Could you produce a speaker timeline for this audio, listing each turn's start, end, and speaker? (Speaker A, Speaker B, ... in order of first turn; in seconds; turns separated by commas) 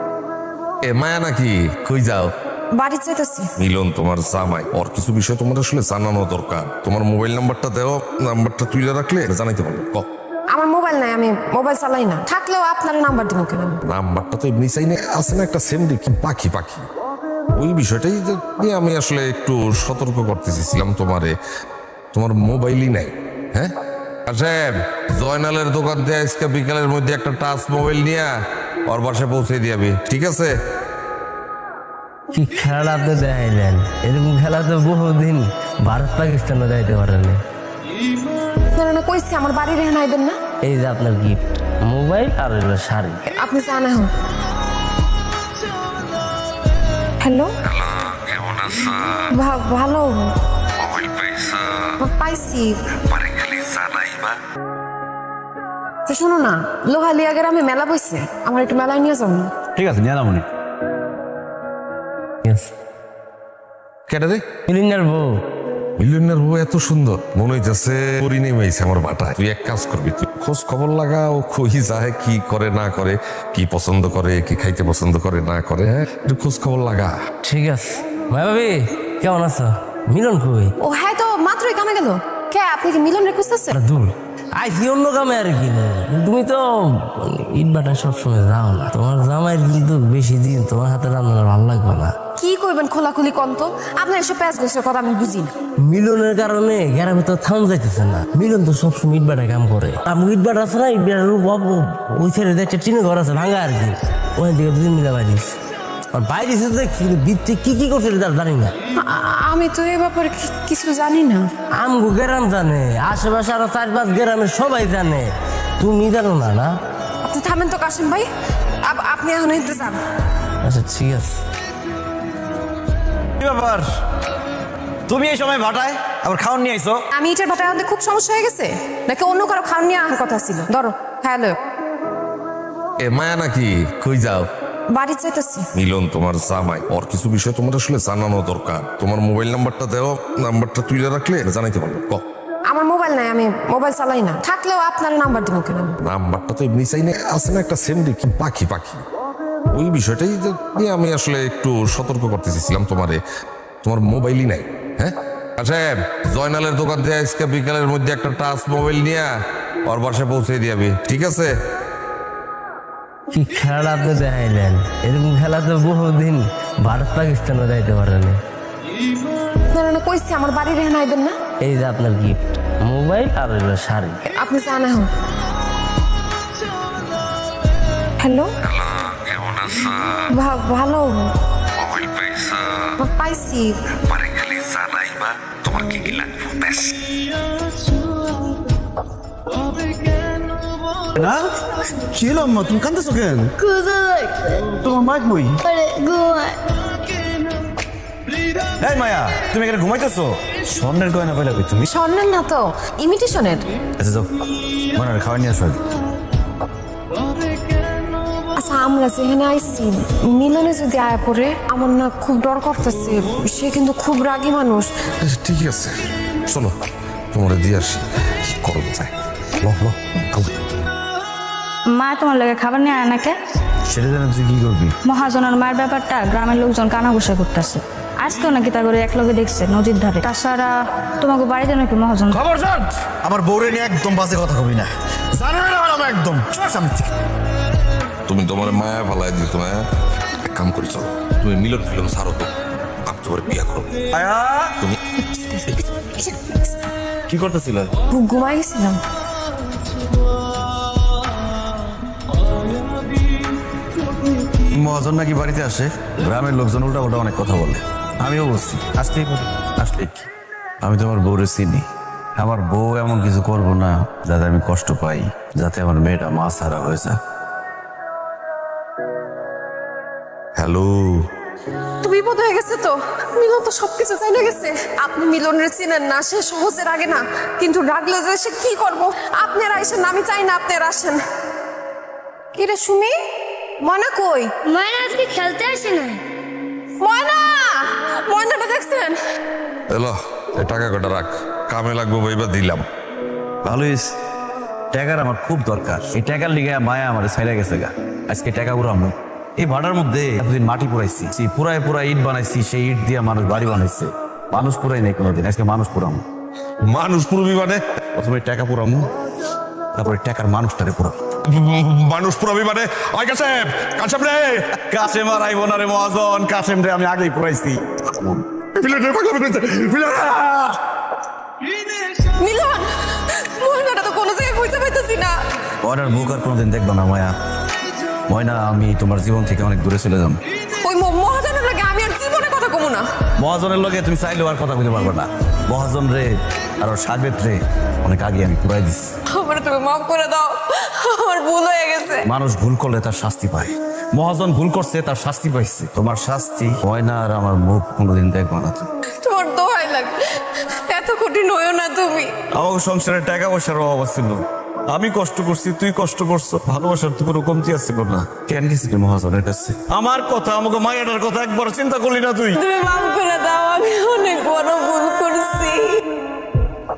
Speaker A: 0.8-2.3, Speaker B: 2.7-3.5, Speaker A: 3.6-10.1, Speaker B: 10.5-13.8, Speaker A: 13.9-16.9, Speaker A: 17.6-21.4, Speaker A: 22.1-23.7, Speaker A: 24.3-28.3, Speaker A: 28.9-30.5, Speaker C: 32.3-37.4, Speaker B: 38.8-40.4, Speaker C: 40.6-43.3, Speaker B: 43.4-44.1, Speaker B: 47.2-47.5, Speaker A: 47.7-49.2, Speaker B: 49.3-50.3, Speaker A: 50.8-51.7, Speaker B: 52.0-52.8, Speaker A: 53.1-54.3, Speaker B: 56.1-59.5, Speaker D: 59.8-60.5, Speaker A: 64.1-64.5, Speaker C: 64.7-65.4, Speaker A: 66.0-77.2, Speaker C: 77.4-80.7, Speaker B: 80.8-83.8, Speaker C: 83.7-92.2, Speaker B: 92.3-95.6, Speaker C: 95.8-105.5, Speaker C: 106.1-108.8, Speaker B: 109.0-111.5, Speaker C: 111.8-116.7, Speaker B: 117.2-118.3, Speaker B: 118.8-120.0, Speaker C: 120.6-121.4, Speaker D: 123.4-123.9, Speaker D: 125.1-127.0, Speaker B: 127.1-131.6, Speaker A: 133.0-134.5, Speaker B: 134.9-135.7, Speaker A: 135.8-142.2, Speaker B: 142.7-146.0, Speaker A: 146.0-149.0, Speaker A: 149.7-153.2, Speaker A: 153.8-159.3, Speaker A: 159.9-161.5, Speaker C: 163.3-168.4, Speaker B: 169.7-171.4, Speaker C: 171.6-174.2, Speaker B: 174.3-175.1, Speaker B: 178.2-178.5, Speaker A: 178.7-180.2, Speaker B: 180.3-181.3, Speaker A: 181.8-182.9, Speaker B: 183.0-183.8, Speaker A: 184.1-187.0, Speaker D: 191.1-191.5, Speaker D: 192.0-193.5, Speaker E: 193.7-194.3, Speaker D: 194.7-195.6, Speaker E: 195.7-196.6, Speaker D: 198.8-201.9, Speaker B: 201.9-203.7, Speaker D: 204.0-204.3, Speaker D: 204.9-205.8, Speaker B: 208.6-214.9, Speaker A: 215.2-215.9, Speaker A: 216.5-216.7, Speaker A: 217.3-220.5, Speaker F: 221.9-223.4, Speaker D: 223.9-224.9, Speaker F: 225.1-232.4, Speaker D: 232.3-237.1, Speaker A: 238.3-239.8, Speaker A: 240.4-242.5, Speaker A: 243.1-243.9, Speaker D: 244.1-244.8, Speaker B: 245.2-246.9, Speaker D: 247.3-247.9, Speaker B: 248.1-249.0, Speaker D: 254.7-260.3, Speaker D: 260.8-261.9, Speaker D: 262.4-267.2, Speaker A: 270.6-271.3, Speaker B: 272.0-281.2, Speaker B: 282.6-283.1, Speaker B: 283.9-284.5, Speaker E: 284.7-286.2, Speaker B: 287.0-289.2, Speaker A: 289.9-292.8, Speaker D: 293.6-294.1, Speaker D: 294.9-306.2, Speaker A: 306.9-307.8, Speaker D: 308.2-309.1, Speaker D: 309.9-311.2, Speaker A: 311.5-314.7, Speaker D: 314.7-318.4, Speaker A: 318.7-320.8, Speaker B: 322.4-325.4, Speaker D: 325.8-327.4, Speaker D: 328.3-330.4, Speaker B: 330.8-333.1, Speaker D: 333.4-339.1, Speaker B: 339.3-342.2, Speaker D: 342.2-348.9, Speaker B: 349.2-352.3, Speaker D: 352.6-362.6, Speaker B: 362.6-366.1